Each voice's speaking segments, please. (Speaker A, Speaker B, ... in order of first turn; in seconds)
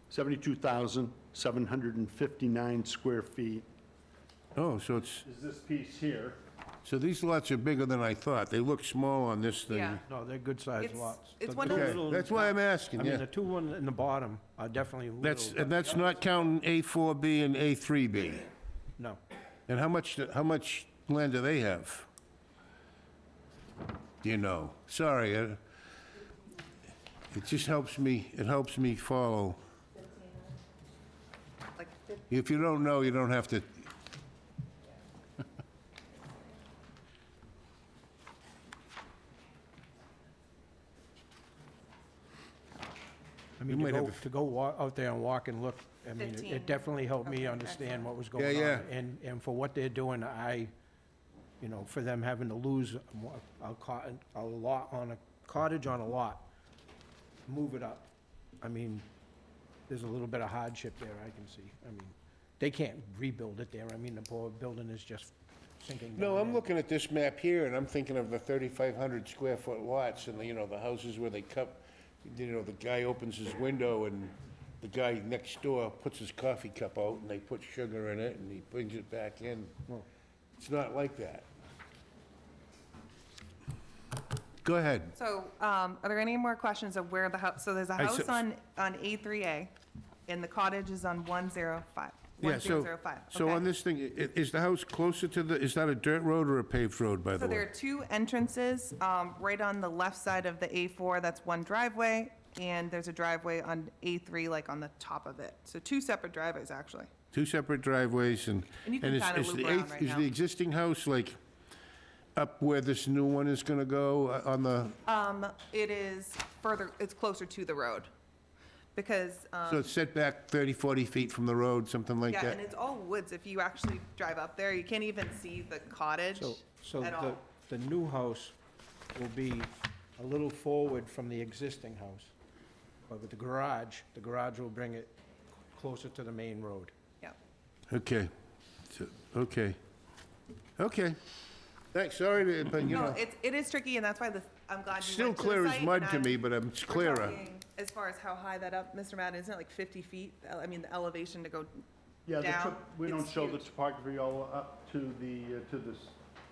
Speaker A: 0.1-3.7, 5.2-6.4, 152.3-156.2
Speaker B: 4.5-5.2, 6.8-10.0, 11.7-13.2, 15.2-18.5, 19.7-22.1, 24.2-25.6, 27.3-29.6, 32.3-33.9, 43.7-44.2, 48.4-48.9, 66.1-79.8, 80.6-81.5, 84.6-85.1, 88.0-88.4, 92.4-97.7, 107.3-111.3, 112.4-115.0, 119.7-122.6, 137.9-138.3, 138.9-139.8, 140.8-141.2, 141.9-143.2, 145.0-147.4
Speaker C: 9.7-10.0, 10.8-12.3, 30.0-30.5, 31.8-32.2, 46.2-48.1, 85.1-89.8, 90.3-93.7, 97.4-107.1, 108.8-110.3, 115.0-118.1, 119.0-119.9, 122.3-127.4, 142.9-151.8, 152.4-153.7
Speaker D: 10.1-16.5, 43.6-50.7, 51.6-56.5, 57.5-59.1, 59.9-66.7, 126.4-128.6, 129.1-132.3, 133.1-135.2, 135.7-136.9